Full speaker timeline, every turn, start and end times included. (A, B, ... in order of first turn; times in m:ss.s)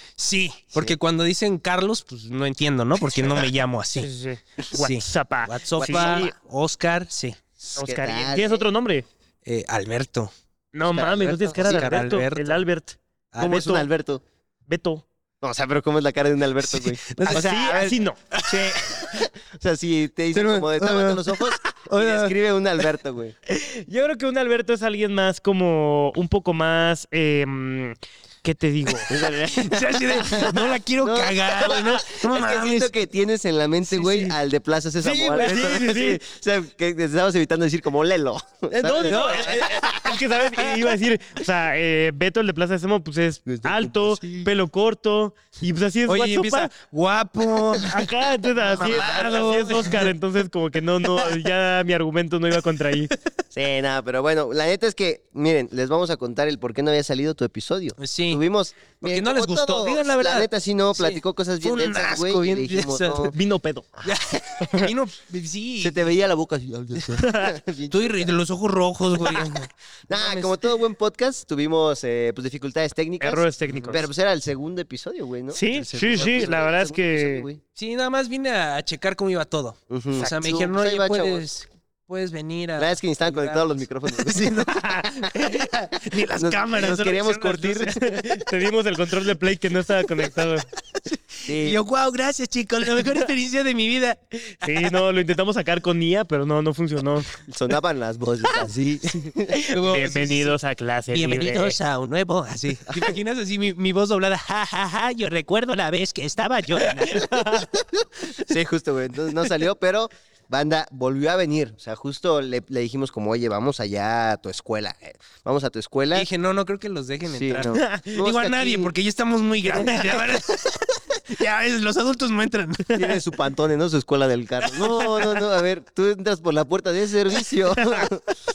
0:00.2-0:04.1 A
0:04.0-0:06.3 B
0:04.7-0:07.4 A
0:05.8-0:06.4 C
0:07.6-0:08.6 C
0:07.8-0:09.1 B
0:09.4-0:10.3 A
0:10.7-0:13.9 B
0:11.0-0:12.2 C
0:11.6-0:12.6 A
0:13.3-0:13.6 A
0:13.4-0:14.2 C
0:14.7-0:15.0 B
0:15.4-0:23.4 C
0:16.6-0:17.6 A
0:17.3-0:18.2 B
0:18.3-0:19.1 A
0:20.3-0:22.4 A
0:23.5-0:29.1 B
0:29.1-0:40.2 C
0:29.5-0:32.9 A
0:33.9-0:34.3 A
0:35.0-0:36.2 B
0:35.4-0:36.0 A
0:38.8-0:46.7 B
0:39.0-0:39.7 A
0:43.5-0:44.5 C
0:46.1-0:48.1 A
0:47.8-0:53.2 B
0:48.6-0:50.1 A
0:48.8-0:49.3 C
0:51.2-0:51.4 A
0:53.5-1:03.4 C
0:58.0-0:58.4 A
0:59.0-1:03.3 A
1:03.3-1:03.9 B
1:04.0-1:06.0 A
1:04.6-1:04.9 B
1:05.8-1:08.3 C
1:07.2-1:07.6 B
1:07.9-1:09.7 A
1:09.2-1:09.5 B
1:10.1-1:17.6 C
1:10.2-1:10.5 A
1:13.2-1:14.0 B
1:13.6-1:14.0 A
1:15.5-1:17.4 B
1:15.7-1:16.6 A
1:17.8-1:28.0 A
1:19.9-1:21.5 C
1:22.8-1:25.5 C
1:26.3-1:28.2 C
1:28.0-1:30.7 B
1:31.0-1:35.0 A
1:31.5-1:31.8 C
1:34.6-1:37.4 B
1:37.5-1:39.6 C
1:39.5-1:41.8 B
1:39.7-1:40.6 A
1:41.1-1:47.7 A
1:47.2-1:47.6 B
1:48.2-1:56.3 C
1:56.1-2:03.0 A
1:57.3-1:58.9 C
1:57.6-1:58.1 B
1:59.8-2:00.3 B
2:02.9-2:08.4 C
2:07.8-2:08.1 B